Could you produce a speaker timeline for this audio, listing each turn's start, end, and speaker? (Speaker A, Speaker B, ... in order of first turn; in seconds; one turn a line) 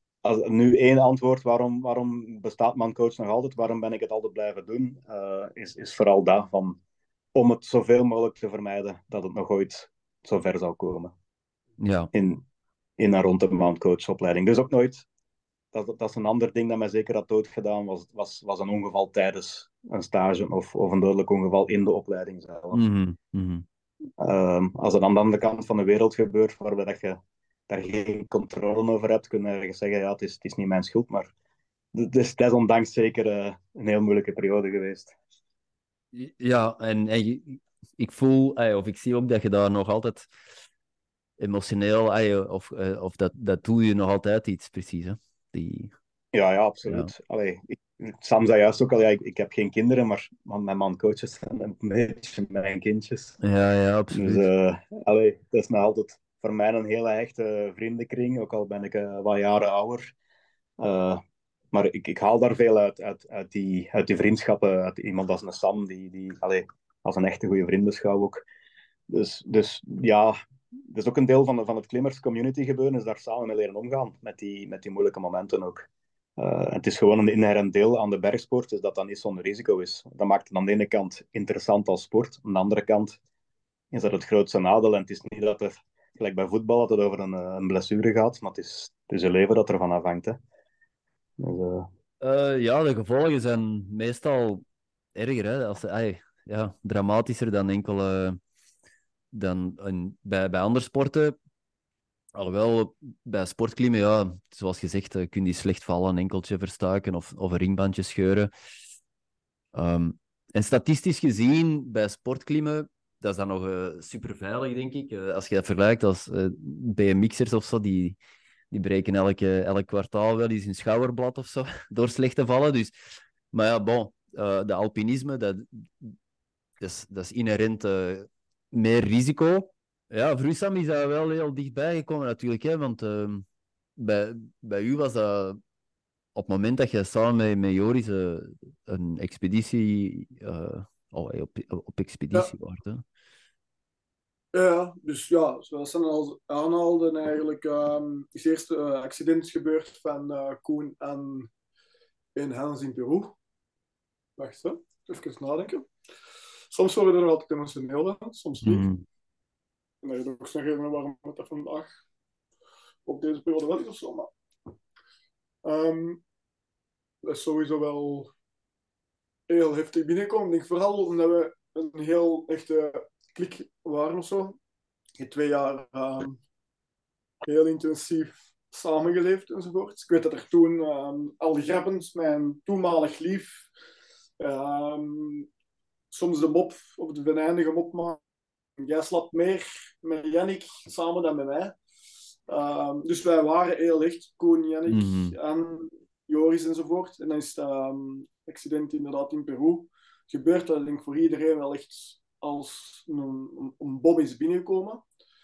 Speaker A: 0.2-6.8
Speaker A: 7.3-11.1
Speaker B: 11.8-12.1
Speaker A: 12.1-12.4
Speaker A: 13.0-15.1
Speaker A: 15.7-22.8
Speaker B: 22.7-23.6
Speaker A: 24.2-31.3
Speaker A: 31.9-35.1
Speaker B: 36.1-40.3
Speaker B: 41.4-45.9
Speaker A: 46.3-53.4
Speaker B: 53.4-54.5
Speaker A: 54.1-60.1
Speaker A: 60.8-61.2
Speaker A: 61.7-68.5
Speaker A: 69.1-70.3
Speaker A: 70.9-83.2
Speaker A: 83.9-90.4
Speaker A: 91.4-91.9
Speaker B: 92.2-94.6
Speaker B: 95.2-98.4
Speaker B: 99.3-101.3
Speaker B: 102.3-108.5
Speaker B: 109.8-118.2
Speaker B: 118.7-122.9
Speaker B: 123.5-126.2
Speaker B: 126.8-133.4
Speaker B: 134.0-135.6
Speaker B: 136.3-143.0
Speaker C: 144.5-151.5
Speaker C: 152.4-153.3
Speaker C: 154.4-155.9
Speaker C: 156.7-158.9
Speaker B: 158.6-159.0
Speaker C: 160.0-161.9
Speaker C: 163.1-164.3
Speaker C: 165.7-166.2
Speaker C: 167.2-168.3
Speaker C: 169.5-174.6
Speaker C: 175.2-176.4
Speaker C: 177.4-183.7
Speaker C: 184.4-185.5
Speaker C: 186.1-188.2
Speaker C: 188.8-191.8
Speaker C: 192.5-205.0
Speaker B: 194.9-195.3